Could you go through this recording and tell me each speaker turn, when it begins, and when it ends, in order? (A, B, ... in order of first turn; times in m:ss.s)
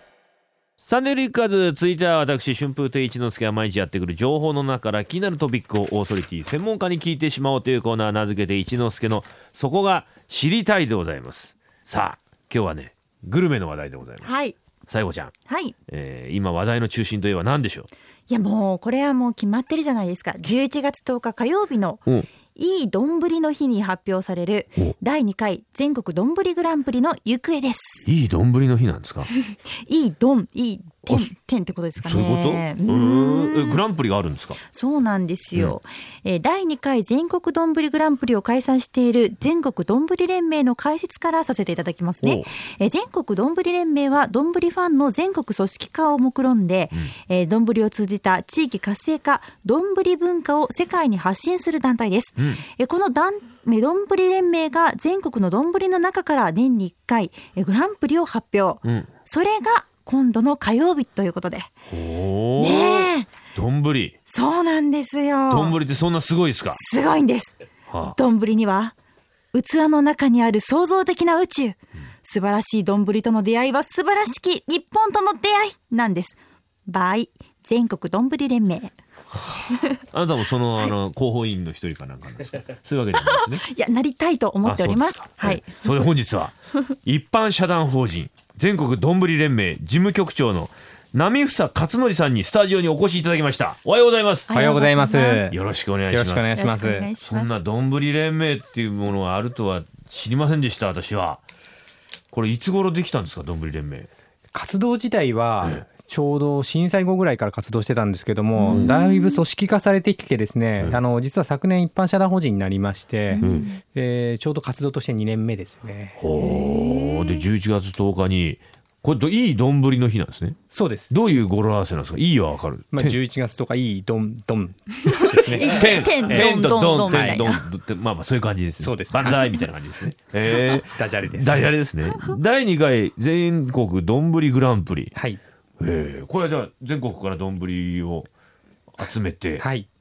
0:00.8-0:14.3 A
0:14.2-0:14.6 B
0:14.9-0:15.3 A
0:15.5-0:15.7 B
0:15.9-0:17.9 A
0:18.3-0:28.1 B
0:28.0-0:29.3 A
0:29.6-0:33.8 B
0:31.0-0:31.3 A
0:32.0-0:34.6 A
0:34.7-1:01.7 B
0:42.2-0:42.5 A
1:01.9-1:04.1 A
1:02.6-1:03.3 B
1:04.3-1:05.8 B
1:05.5-1:06.8 A
1:06.7-1:07.5 B
1:07.9-1:08.2 A
1:08.1-1:08.9 B
1:09.5-1:18.9 B
1:19.4-1:23.6 A
1:23.2-1:26.0 B
1:24.6-1:34.5 A
1:34.5-1:35.5 B
1:34.5-1:35.6 C
1:35.5-1:36.6 A
1:36.1-1:37.1 C
1:36.5-1:37.5 B
1:37.2-1:41.4 A
1:42.3-1:44.1 A
1:44.5-1:56.2 C
1:48.6-1:49.4 B
1:53.3-1:53.8 B
1:53.4-1:53.6 A
1:56.2-2:00.6 A
1:56.3-1:57.4 B
2:00.7-2:01.4 C
2:01.1-2:03.1 A
2:02.9-2:06.5 C
2:05.0-2:07.6 B
2:05.6-2:15.1 A
2:07.1-2:07.4 C
2:08.8-2:09.6 C
2:10.8-2:11.7 C
2:15.1-2:15.4 C
2:15.8-2:18.3 A
2:19.0-2:19.6 A
2:19.6-2:19.9 C